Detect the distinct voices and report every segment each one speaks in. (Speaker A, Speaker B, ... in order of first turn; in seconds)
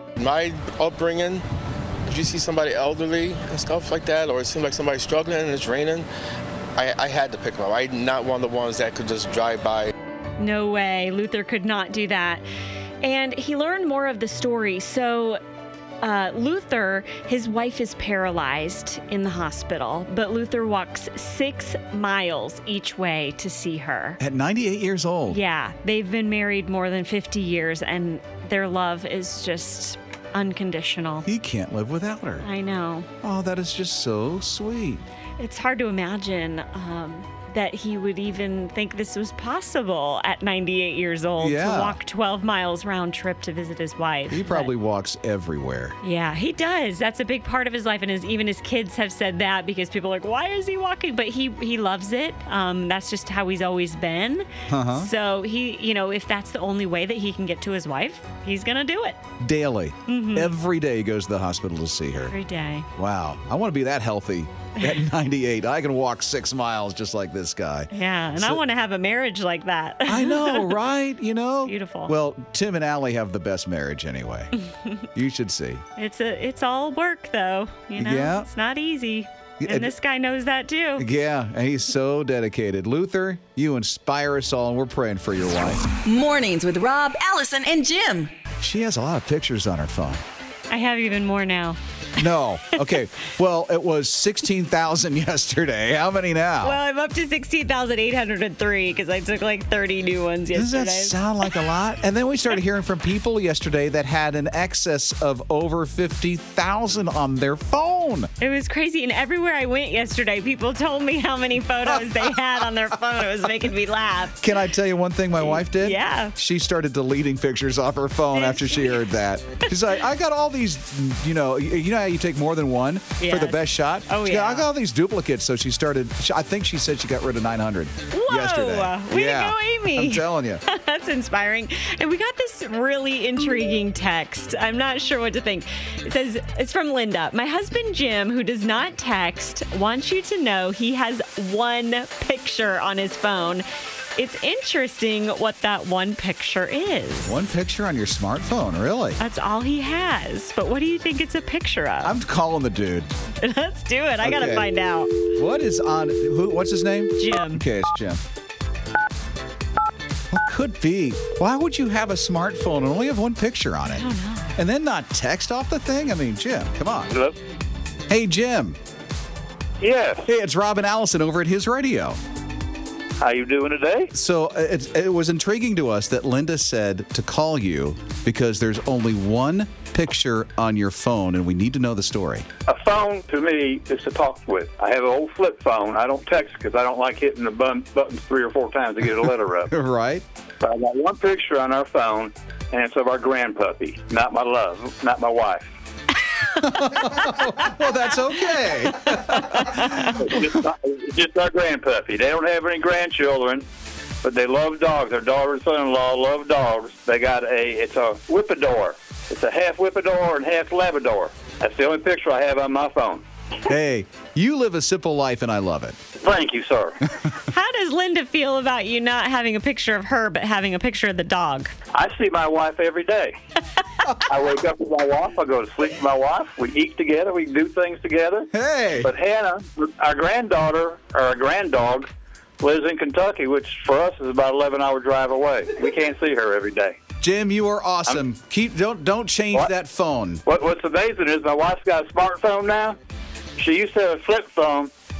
Speaker A: 0.2-1.4, 2.0-6.1, 6.8-9.9
Speaker B: 10.4-12.4, 13.0-15.4, 16.0-24.2, 25.3-31.3, 32.4-33.1, 35.4-44.7, 46.0-59.2, 60.1-60.5, 62.3-62.9, 67.9-70.8, 71.6-72.1, 76.0-81.1, 90.7-91.8, 96.6-101.2, 108.4-114.5, 115.4-116.3, 118.3-119.0, 123.2-124.7, 128.1-147.4, 149.2-152.2, 153.4-155.1, 157.2-157.6, 163.9-164.6, 217.5-221.7
Speaker C: 24.2-25.4, 31.2-32.5, 33.2-35.0, 41.4-42.0, 44.3-46.0, 54.7-55.1, 59.4-62.3, 63.0-68.6, 70.1-74.5, 75.1-75.8, 78.0-78.5, 79.6-79.9, 81.0-85.9, 88.6-90.2, 92.2-96.8, 100.5-108.3, 111.9-112.3, 114.4-130.6, 147.2-149.2, 152.0-153.1, 154.2-154.7, 155.3-158.2, 160.3-164.0, 164.6-167.1, 168.1-168.8, 170.2-172.2, 174.1-182.5, 189.2-190.2, 196.6-200.4, 213.7-216.0, 228.5-229.1, 237.2-240.4
Speaker D: 86.0-88.3
Speaker E: 169.8-170.2, 173.2-174.1, 182.7-189.7, 190.6-195.7, 200.2-203.6, 204.2-213.2, 216.2-217.0, 221.9-223.3, 224.2-232.1, 232.6-237.0, 240.4-243.0, 243.6-244.9